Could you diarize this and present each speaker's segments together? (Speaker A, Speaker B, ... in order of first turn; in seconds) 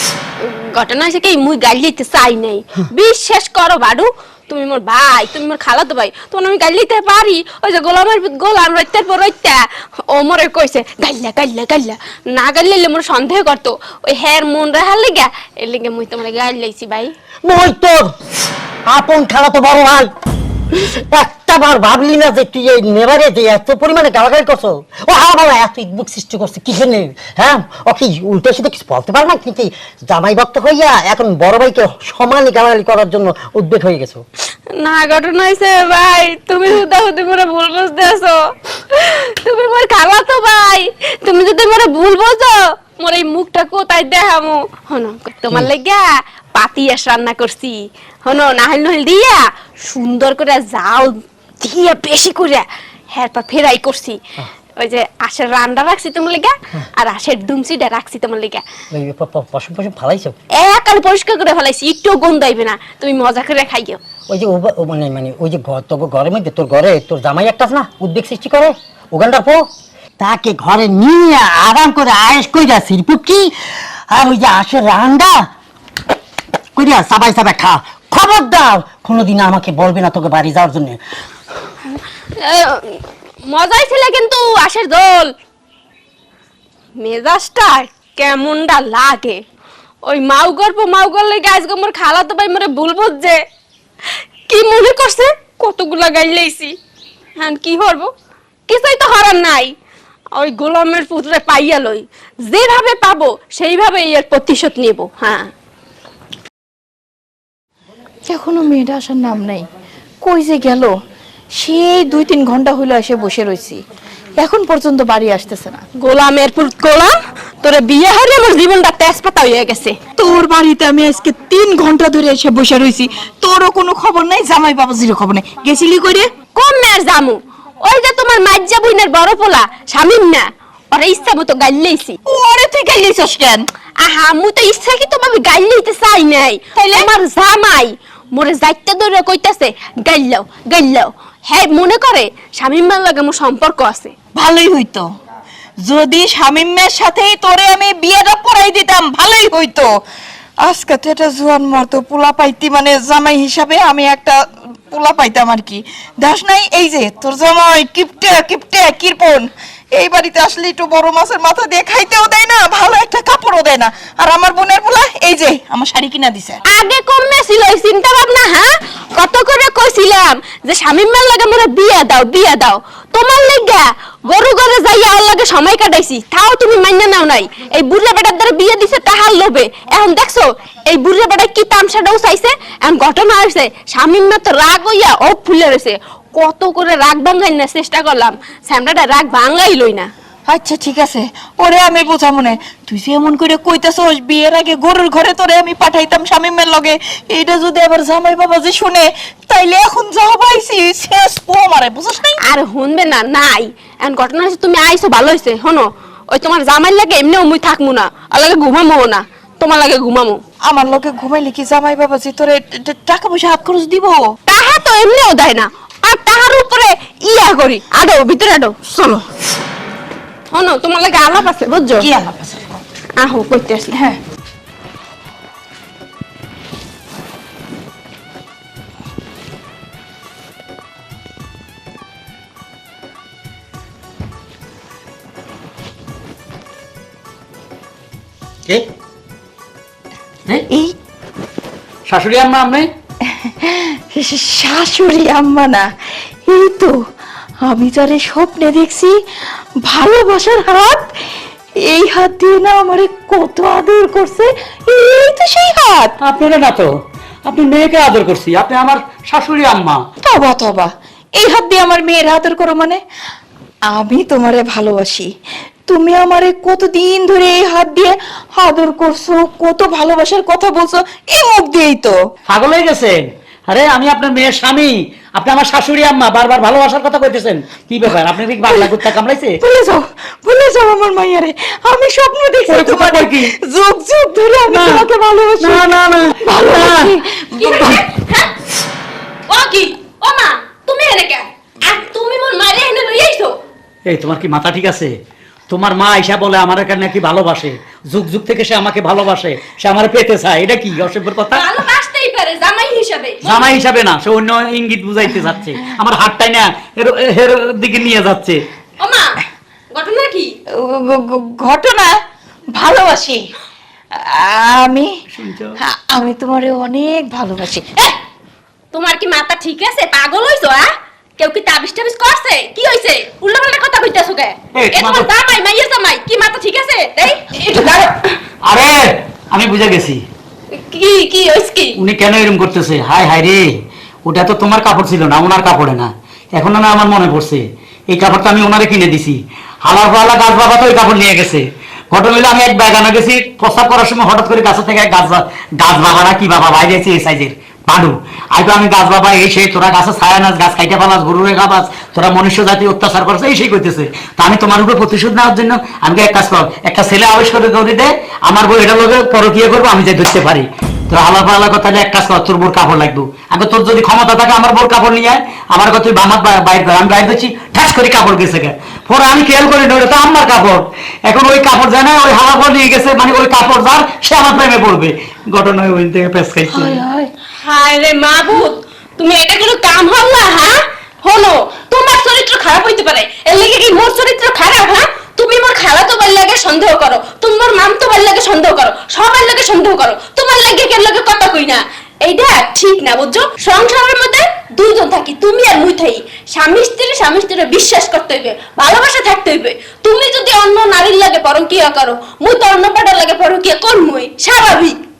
Speaker A: 0.4-9.6, 10.1-17.1, 34.7-54.2, 54.8-58.6, 60.6-64.0, 81.9-85.3, 87.0-89.4, 90.0-93.4, 94.5-96.8, 97.3-98.1, 98.7-99.7, 100.3-105.5, 116.0-120.0, 126.5-132.2, 134.0-144.1, 166.7-190.1, 202.4-210.4, 214.5-219.3, 220.5-222.1, 223.2-224.1, 287.5-288.5, 289.5-293.5, 301.5-303.7, 309.0-310.5, 318.9-328.4, 330.7-332.0, 377.6-405.0
Speaker B: 17.4-18.1, 18.9-20.1, 20.8-34.2, 58.9-60.4, 64.3-69.7, 70.2-73.5, 74.1-75.5, 76.8-81.0
Speaker C: 108.2-109.7, 110.2-111.0, 111.5-113.8, 114.4-115.8, 120.2-126.3, 132.3-133.6, 144.3-145.1, 145.8-149.9, 150.6-166.6, 190.5-202.4, 210.6-214.2, 222.0-222.8, 240.7-240.9, 243.5-245.9, 246.4-247.0, 247.6-249.2, 249.8-251.1, 251.8-256.1, 260.2-263.0, 263.9-265.3, 265.9-272.1, 279.6-285.8, 286.4-287.7, 310.8-313.4, 314.1-315.1, 315.8-318.1
Speaker D: 242.1-242.9, 256.2-256.9, 257.4-260.0, 272.5-279.6, 282.7-283.5, 284.7-285.1, 285.6-287.1, 294.1-295.1, 295.7-301.6, 303.4-308.6, 315.3-315.8, 324.7-325.3, 328.6-328.9, 329.5-330.2, 332.0-333.7, 334.2-377.0